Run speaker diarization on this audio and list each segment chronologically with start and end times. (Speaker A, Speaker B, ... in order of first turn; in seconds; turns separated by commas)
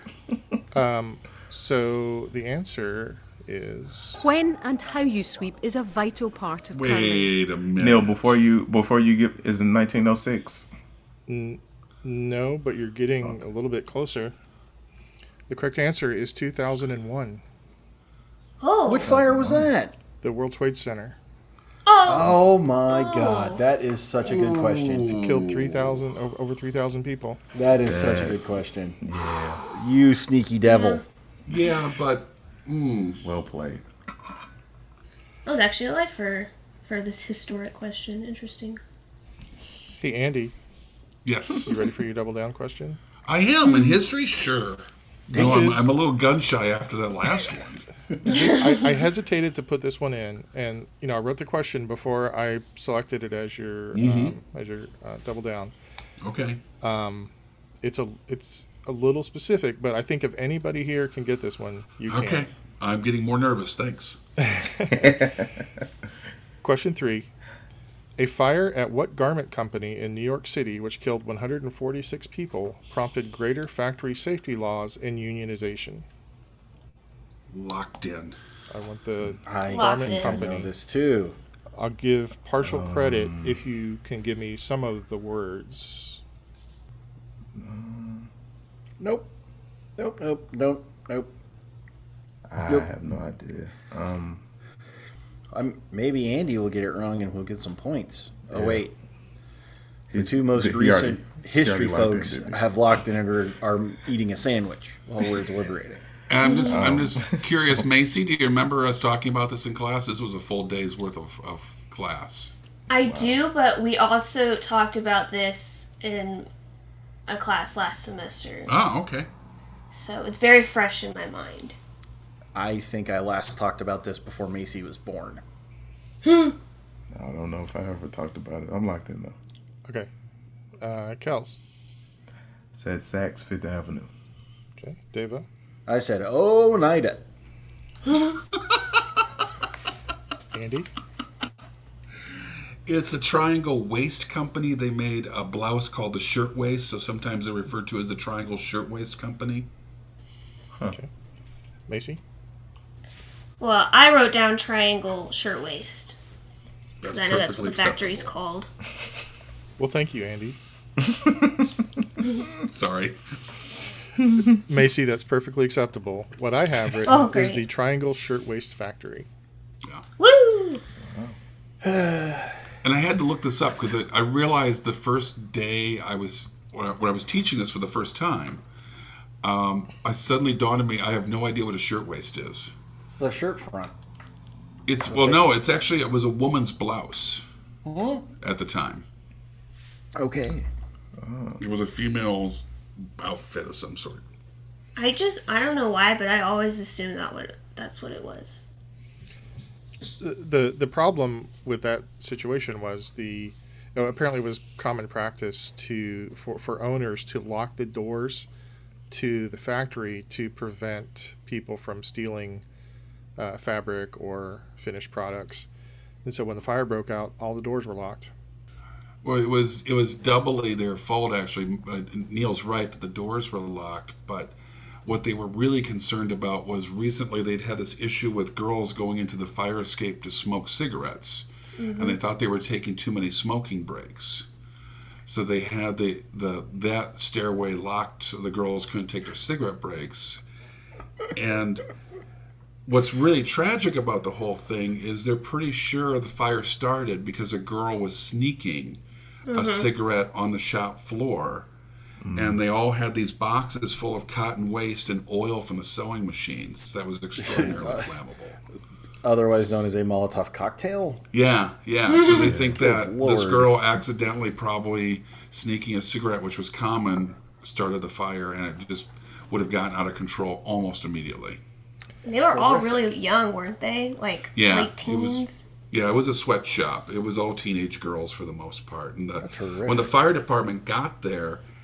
Speaker A: 0.7-4.2, Speaker B: 4.2-7.3, Speaker C: 6.7-8.4, Speaker D: 7.8-10.7, Speaker A: 11.3-14.3, Speaker A: 15.5-17.4, Speaker E: 18.6-19.1, Speaker F: 18.8-19.9, Speaker D: 19.0-19.7, Speaker A: 20.2-21.2, Speaker E: 21.9-23.6, Speaker F: 22.0-25.2, Speaker C: 24.2-26.0, Speaker A: 25.1-27.4, Speaker F: 27.5-29.0, Speaker D: 27.8-28.4, Speaker D: 29.0-29.6, Speaker F: 29.6-31.0, Speaker E: 30.6-31.0, Speaker C: 31.5-33.2, Speaker D: 33.2-33.9, Speaker E: 35.4-38.8, Speaker A: 40.0-40.5, Speaker C: 41.2-41.7, Speaker A: 41.6-43.0, Speaker C: 43.2-47.8, Speaker E: 43.7-44.0, Speaker A: 45.3-45.9, Speaker F: 45.3-45.7, Speaker A: 48.2-55.7, Speaker C: 53.9-54.3, Speaker C: 56.2-56.6, Speaker A: 56.8-57.3, Speaker A: 57.8-62.5, Speaker C: 62.1-64.2, Speaker A: 64.4-65.3, Speaker D: 65.0-65.4, Speaker A: 66.6-67.3, Speaker A: 68.2-76.0, Speaker C: 77.5-78.4, Speaker A: 78.7-80.7, Speaker F: 79.4-81.3, Speaker E: 79.7-80.4, Speaker A: 81.7-86.2, Speaker D: 82.6-83.6, Speaker D: 87.5-88.3, Speaker F: 89.0-89.3, Speaker F: 90.0-91.3, Speaker D: 92.5-94.4, Speaker F: 95.5-98.9, Speaker D: 98.5-98.8, Speaker D: 100.1-102.6, Speaker F: 100.1-106.0, Speaker C: 106.3-112.5, Speaker E: 106.4-106.8, Speaker D: 106.6-107.4, Speaker E: 112.9-116.5, Speaker D: 113.0-113.4, Speaker E: 117.3-118.7, Speaker C: 118.7-119.3, Speaker E: 119.9-121.8, Speaker F: 122.5-125.4, Speaker E: 126.2-126.6, Speaker D: 127.1-129.3, Speaker A: 130.8-131.6, Speaker D: 132.7-134.1, Speaker A: 134.8-135.4, Speaker F: 135.9-137.2, Speaker A: 140.5-140.9, Speaker C: 142.9-149.7, Speaker A: 151.9-152.2, Speaker E: 153.6-156.2, Speaker C: 157.0-158.3, Speaker E: 157.1-158.7, Speaker A: 159.8-160.6, Speaker C: 162.7-163.2, Speaker A: 164.7-169.3, Speaker E: 167.0-167.6, Speaker E: 170.2-170.8, Speaker D: 171.0-171.4, Speaker F: 171.8-172.5, Speaker C: 172.8-178.6, Speaker C: 179.4-182.7, Speaker F: 183.1-183.9, Speaker C: 184.9-187.4, Speaker F: 185.1-185.4, Speaker F: 187.8-188.2, Speaker C: 188.4-189.0, Speaker F: 190.2-190.7, Speaker D: 191.2-191.6, Speaker C: 191.6-194.2, Speaker E: 194.9-198.6, Speaker A: 200.2-208.5, Speaker A: 209.1-212.6, Speaker A: 213.4-215.7, Speaker A: 216.2-218.3, Speaker C: 219.2-234.5, Speaker E: 231.8-232.2, Speaker C: 235.2-240.4, Speaker C: 241.3-241.8, Speaker C: 242.8-249.0, Speaker E: 249.5-249.9, Speaker C: 249.5-251.7, Speaker D: 252.2-252.6, Speaker C: 252.3-258.6, Speaker F: 257.4-258.2, Speaker F: 259.2-261.2, Speaker C: 261.3-271.6, Speaker E: 262.1-262.5, Speaker D: 262.3-262.8, Speaker F: 262.8-263.7, Speaker E: 272.2-275.6, Speaker F: 272.5-273.1, Speaker C: 274.5-281.6, Speaker F: 279.4-280.1